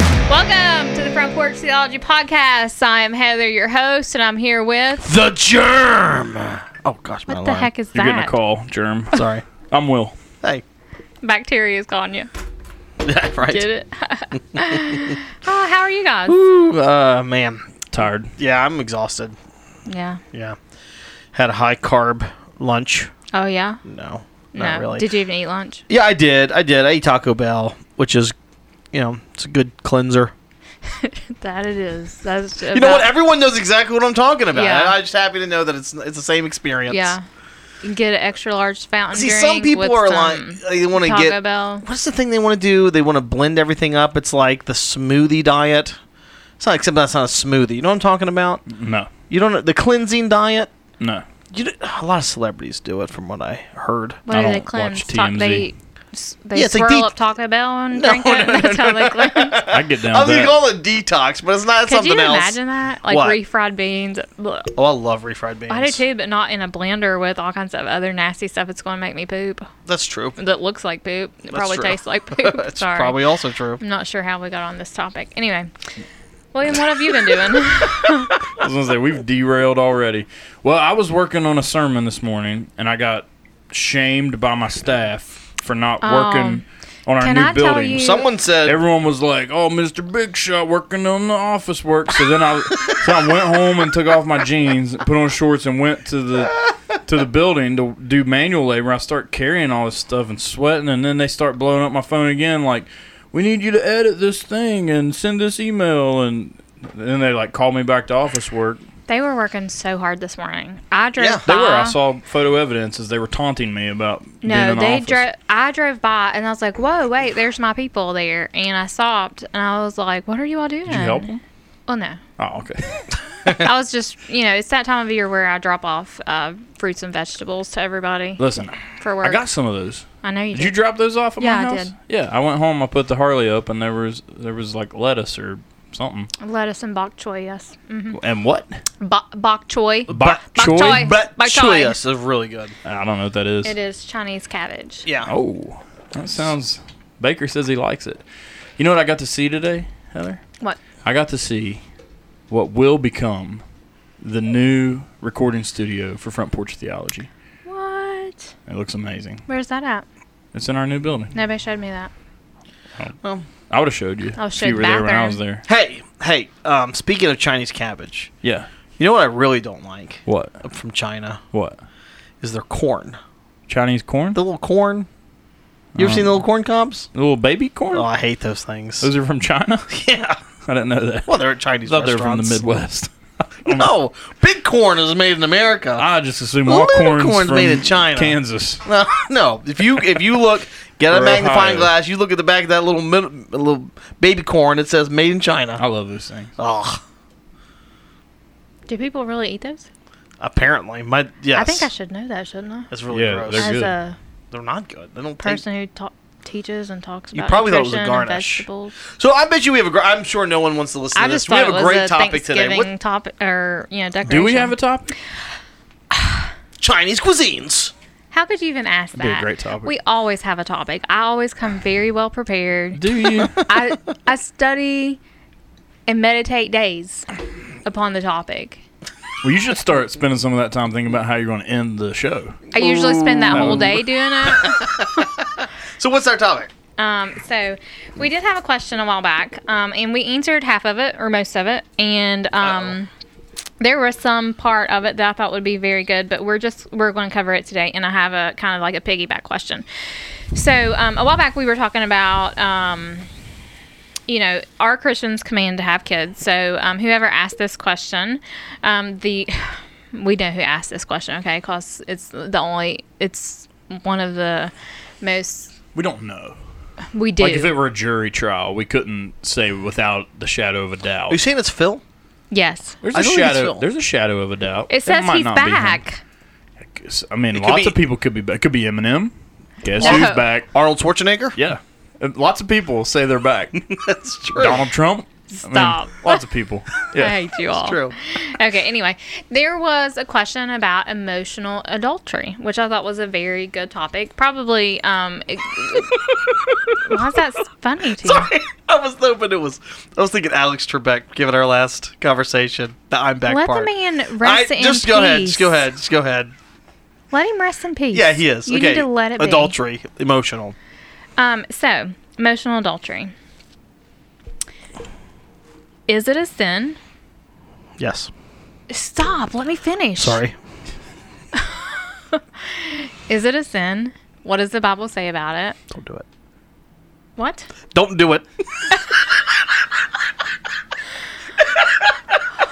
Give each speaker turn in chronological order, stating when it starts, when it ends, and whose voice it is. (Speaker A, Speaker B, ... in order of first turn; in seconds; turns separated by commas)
Speaker A: 0.3-5.1, Speaker B: 5.0-7.7, Speaker A: 7.3-8.3, Speaker C: 7.9-10.2, Speaker B: 9.1-9.4, Speaker A: 11.2-12.3, Speaker B: 13.0-13.7, Speaker A: 13.5-16.4, Speaker B: 14.6-15.2, Speaker B: 16.3-17.8, Speaker C: 17.9-18.3, Speaker B: 18.4-19.3, Speaker A: 19.9-20.2, Speaker B: 21.3-23.1, Speaker A: 23.3-23.8, Speaker B: 23.8-25.1, Speaker A: 24.6-25.8, Speaker B: 25.9-28.3, Speaker B: 28.9-30.3, Speaker A: 30.9-33.1, Speaker B: 32.7-37.1, Speaker A: 34.5-35.0, Speaker A: 36.9-37.2, Speaker A: 37.8-41.8, Speaker B: 39.1-46.0, Speaker B: 46.6-48.7, Speaker C: 48.7-49.1, Speaker B: 49.3-50.7, Speaker C: 51.0-51.2, Speaker B: 51.5-54.2, Speaker A: 54.3-59.6, Speaker C: 54.3-55.7, Speaker B: 56.5-57.1, Speaker B: 57.9-63.4, Speaker C: 59.7-60.6, Speaker A: 61.9-64.7, Speaker B: 64.8-66.0, Speaker A: 65.7-69.7, Speaker B: 69.8-70.4, Speaker A: 70.4-73.2, Speaker B: 71.5-73.8, Speaker A: 73.8-75.7, Speaker A: 76.5-78.4, Speaker C: 78.5-88.1, Speaker A: 86.0-86.6, Speaker A: 87.2-88.2, Speaker B: 87.9-88.8, Speaker C: 88.6-108.8, Speaker A: 109.1-112.0, Speaker B: 111.2-111.4, Speaker C: 111.5-115.2, Speaker A: 114.4-121.3, Speaker C: 120.9-121.4, Speaker A: 121.9-122.2, Speaker C: 122.4-123.0, Speaker A: 123.5-128.4, Speaker C: 128.4-136.3, Speaker A: 129.0-129.4, Speaker A: 130.2-130.8, Speaker A: 131.4-131.9, Speaker A: 136.4-138.2, Speaker C: 138.1-138.8, Speaker A: 139.0-141.9, Speaker C: 140.1-141.1, Speaker B: 140.1-142.8, Speaker C: 142.8-143.8, Speaker A: 143.7-145.1, Speaker B: 145.1-145.3, Speaker C: 145.2-148.2, Speaker C: 148.8-150.4, Speaker C: 151.0-151.8, Speaker C: 152.5-153.6, Speaker C: 154.2-157.3, Speaker A: 157.7-158.5, Speaker C: 158.7-159.4, Speaker A: 159.5-160.1, Speaker C: 160.5-161.3, Speaker A: 161.3-162.1, Speaker C: 163.7-165.7, Speaker A: 164.4-165.4, Speaker B: 165.7-168.3, Speaker C: 168.4-168.7, Speaker B: 169.0-171.4, Speaker C: 170.2-170.6, Speaker C: 171.5-171.8, Speaker B: 172.4-173.2, Speaker C: 173.7-174.4, Speaker B: 174.3-175.1, Speaker C: 175.9-176.4, Speaker B: 176.0-177.1, Speaker C: 177.1-178.1, Speaker B: 177.9-179.1, Speaker C: 179.0-179.9, Speaker B: 179.9-180.4, Speaker C: 180.7-183.9, Speaker B: 181.2-182.6, Speaker B: 183.7-186.1, Speaker C: 186.0-188.9, Speaker B: 186.7-195.8, Speaker C: 191.1-191.9, Speaker C: 195.8-196.5, Speaker B: 196.6-197.0, Speaker A: 198.9-199.9, Speaker B: 200.4-201.9, Speaker A: 201.5-202.9, Speaker B: 202.9-203.8, Speaker C: 203.1-203.9, Speaker A: 203.5-204.2, Speaker B: 204.5-205.6, Speaker A: 205.4-208.9, Speaker B: 207.3-208.7, Speaker B: 209.2-212.9, Speaker A: 211.1-214.8, Speaker C: 214.3-215.1, Speaker A: 216.1-216.5, Speaker B: 216.8-217.9, Speaker A: 218.3-225.2, Speaker C: 219.2-219.9, Speaker C: 222.9-223.6, Speaker A: 226.1-227.3, Speaker A: 227.8-228.8, Speaker C: 229.4-232.6, Speaker A: 232.7-235.2, Speaker B: 232.8-236.7, Speaker C: 233.5-234.0, Speaker A: 237.0-243.1, Speaker B: 242.6-242.9, Speaker A: 243.8-249.8, Speaker A: 250.5-253.3, Speaker A: 254.3-265.7, Speaker C: 265.9-266.6, Speaker A: 267.1-267.7, Speaker C: 267.4-271.4, Speaker B: 271.3-272.0, Speaker A: 272.5-273.0, Speaker C: 273.0-276.0, Speaker B: 273.1-273.8, Speaker A: 274.9-276.2, Speaker C: 276.8-280.7, Speaker B: 277.5-277.9, Speaker B: 280.0-281.6, Speaker A: 280.0-280.4, Speaker C: 281.5-283.9, Speaker B: 283.9-284.8, Speaker C: 284.5-287.6, Speaker A: 285.5-286.4, Speaker A: 287.1-296.2, Speaker B: 287.8-288.1, Speaker B: 296.3-297.0, Speaker A: 297.0-298.5, Speaker B: 298.2-306.5, Speaker A: 303.5-305.8, Speaker A: 307.3-309.7, Speaker B: 308.1-310.8, Speaker A: 311.4-313.3, Speaker A: 316.1-317.0, Speaker B: 318.0-318.3, Speaker A: 318.9-320.4, Speaker B: 320.2-320.5, Speaker A: 321.5-325.8, Speaker B: 325.9-326.2, Speaker A: 327.4-327.7, Speaker B: 327.9-329.6, Speaker B: 331.6-332.4